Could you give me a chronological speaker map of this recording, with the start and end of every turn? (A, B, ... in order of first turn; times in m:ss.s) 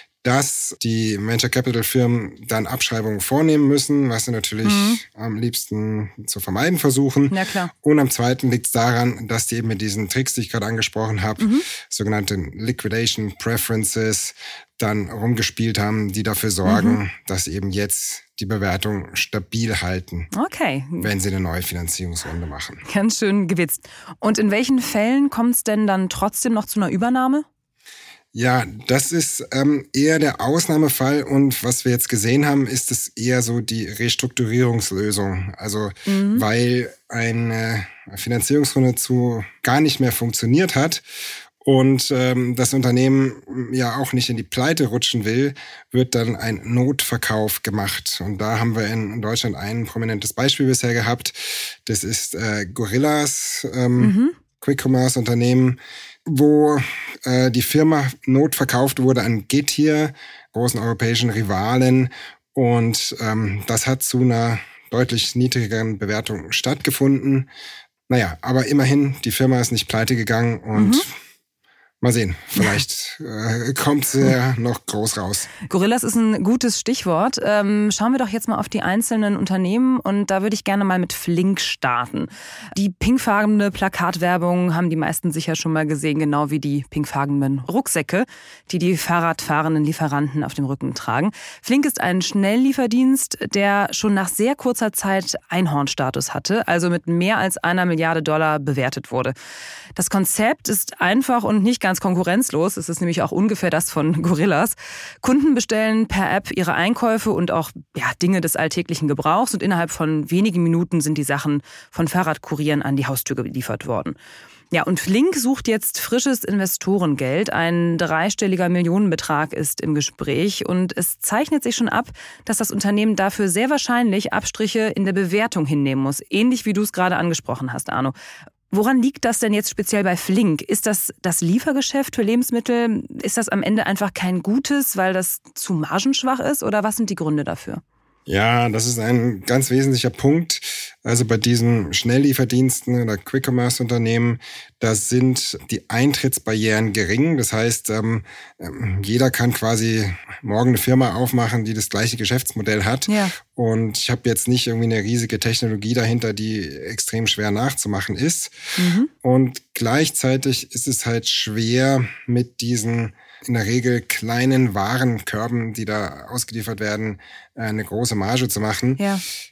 0:00.2-0:20.3 A
0:04.6-0:05.0 B
0:07.3-0:07.7 B
0:11.4-0:11.7 B
0:16.6-0:17.0 B
0:20.3-0:21.1 B
0:21.0-0:22.8 A
0:22.9-0:27.4 B
0:28.3-0:41.0 A
0:36.1-0:36.4 B
0:41.6-1:07.5 A
0:54.0-0:54.3 B
1:08.1-1:11.1 A
1:10.8-1:11.0 B
1:12.0-1:15.5 A
1:15.7-1:39.4 B
1:40.0-1:54.2 B
1:54.7-2:08.2 B
2:08.7-2:17.8 B
2:18.3-2:38.6 A
2:33.1-2:33.3 B
2:38.8-2:39.1 B
2:39.2-2:49.0 A
2:49.0-2:49.2 B